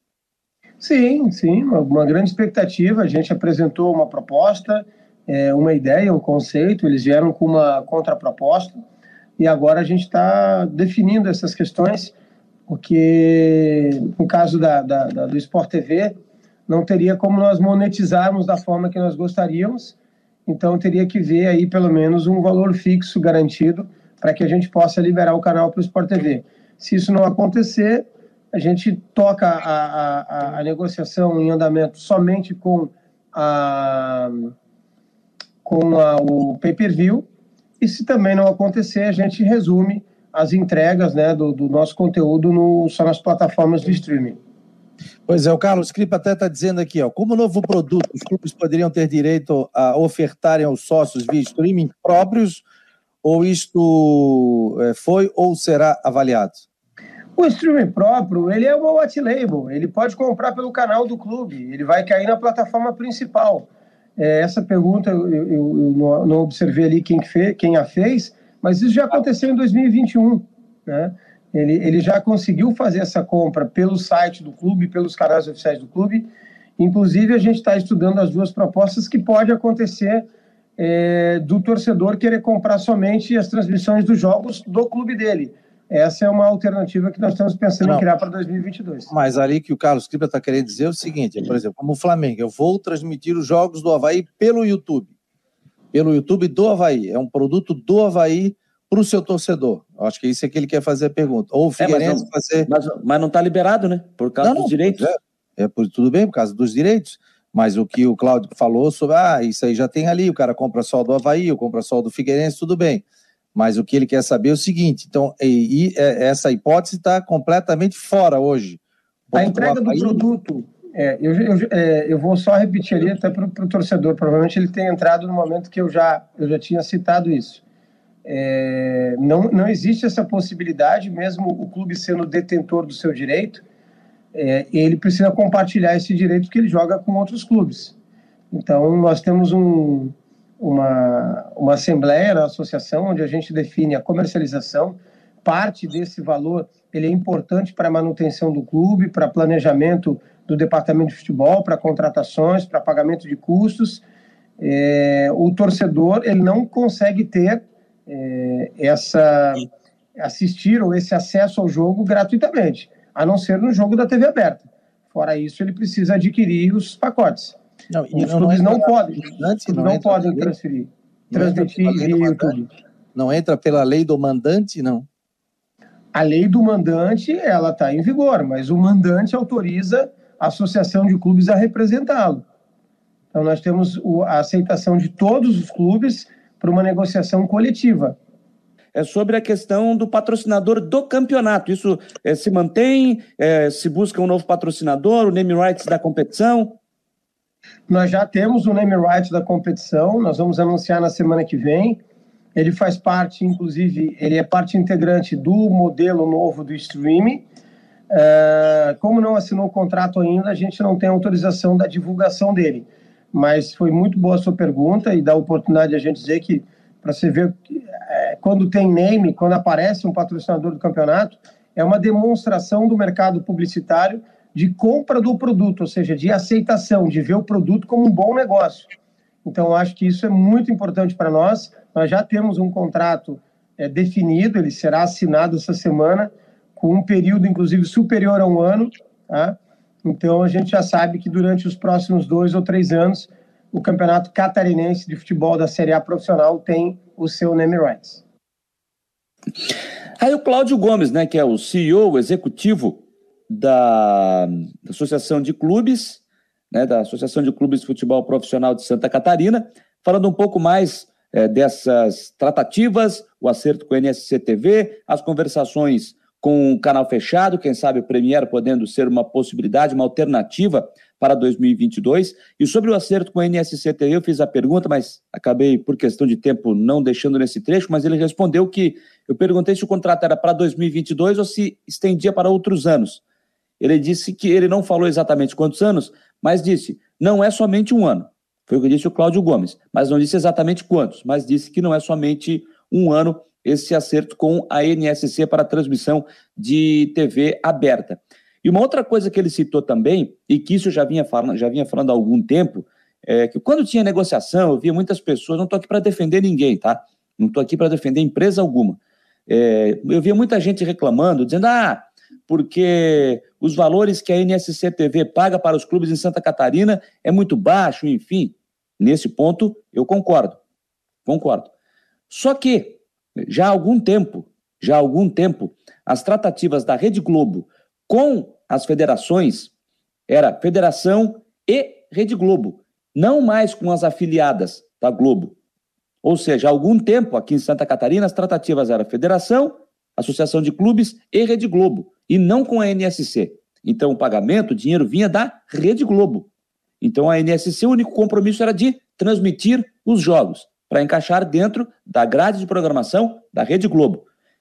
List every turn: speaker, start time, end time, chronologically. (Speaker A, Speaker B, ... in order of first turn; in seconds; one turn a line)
Speaker A: 0.8-8.8
Speaker A: 9.4-12.1
Speaker A: 12.7-16.1
Speaker A: 16.7-19.9
Speaker A: 20.5-34.5
Speaker A: 35.6-37.3
Speaker A: 37.8-44.4
Speaker B: 45.3-52.6
Speaker B: 53.2-56.6
Speaker A: 57.4-80.3
Speaker A: 80.8-89.1
Speaker B: 89.1-95.1
Speaker B: 95.9-102.7
Speaker C: 101.8-105.1
Speaker B: 104.4-113.0
Speaker B: 113.6-118.8
Speaker B: 119.3-120.2
Speaker A: 119.3-127.6
Speaker A: 128.2-133.6
Speaker A: 134.3-137.9
Speaker A: 138.5-154.0
Speaker A: 154.6-167.6
Speaker B: 167.9-170.5
Speaker A: 168.1-172.7
Speaker B: 171.3-172.5
Speaker B: 173.2-175.1
Speaker A: 176.1-182.4
Speaker A: 183.3-188.2
Speaker C: 188.9-196.8
Speaker A: 197.9-202.0
Speaker A: 202.6-207.4
Speaker A: 208.1-228.9
Speaker A: 229.4-248.2
Speaker C: 250.2-256.2
Speaker C: 256.7-283.2
Speaker C: 283.8-320.6
Speaker C: 321.3-321.7
Speaker C: 322.3-329.7
Speaker C: 330.3-335.5
Speaker C: 336.2-346.5
Speaker C: 347.0-354.2